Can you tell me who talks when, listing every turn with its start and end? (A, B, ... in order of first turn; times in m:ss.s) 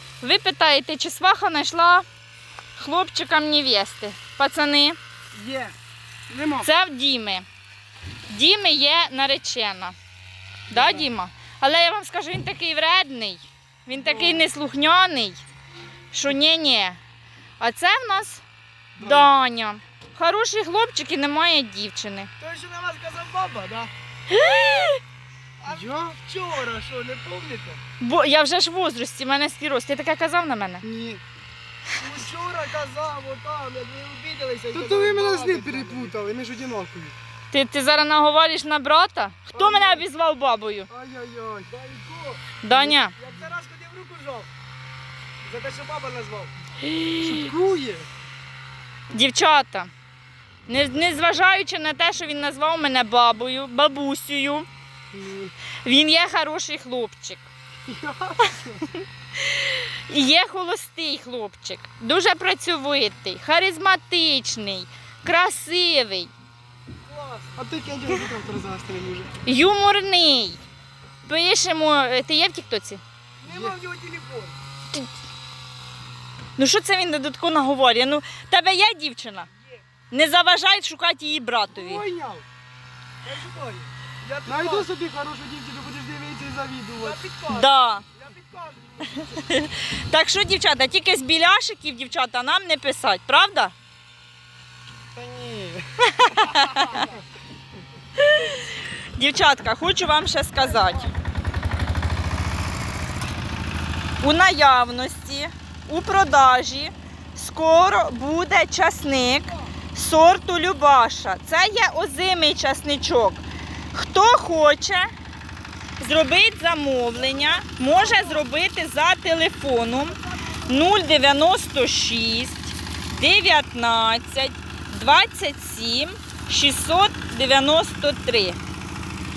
0:00.2-0:02.0 A
0:02.8-0:05.0 A
0:05.3-0:05.7 B
0:06.3-0:06.7 B
0:06.6-0:07.4 A
0:08.3-0:09.9 A
0:10.7-0:15.4 A
0:10.7-0:11.1 B
0:13.9-0:14.5 B
0:16.1-0:17.0 A
0:17.6-0:18.4 A
0:19.0-0:19.3 B
0:19.0-0:22.3 A
0:22.4-0:23.9 C
0:24.3-0:25.0 A
0:25.6-0:27.8 C
0:25.7-0:26.2 B
0:28.0-0:30.8 A
0:30.8-0:31.2 B
0:32.0-0:36.1 C
0:34.7-0:37.2 B
0:37.5-0:40.9 A
0:39.5-0:40.0 B
0:40.9-0:41.7 B
0:41.7-0:44.5 C
0:42.6-0:43.1 A
0:45.4-0:46.5 C
0:46.9-0:47.3 A
0:47.2-0:48.1 B
0:49.1-0:49.9 A
0:50.7-0:54.7 A
0:55.1-0:55.5 B
0:55.8-0:57.5 A
0:57.8-0:58.9 B
0:59.4-1:06.3 A
1:07.0-1:07.6 C
1:07.6-1:09.3 B
1:09.4-1:10.6 A
1:11.2-1:13.0 A
1:13.4-1:14.6 C
1:13.5-1:13.7 B
1:16.6-1:19.5 A
1:20.1-1:22.0 A
1:21.7-1:22.4 B
1:23.2-1:24.9 C
1:24.4-1:27.2 B
1:27.0-1:29.4 C
1:27.5-1:28.0 A
1:29.1-1:33.7 A
1:35.1-1:37.1 B
1:36.2-1:37.1 A
1:38.2-1:41.1 A
1:44.2-1:55.1 A
1:56.0-2:08.6 A
1:57.2-1:58.4 C
2:00.0-2:01.0 C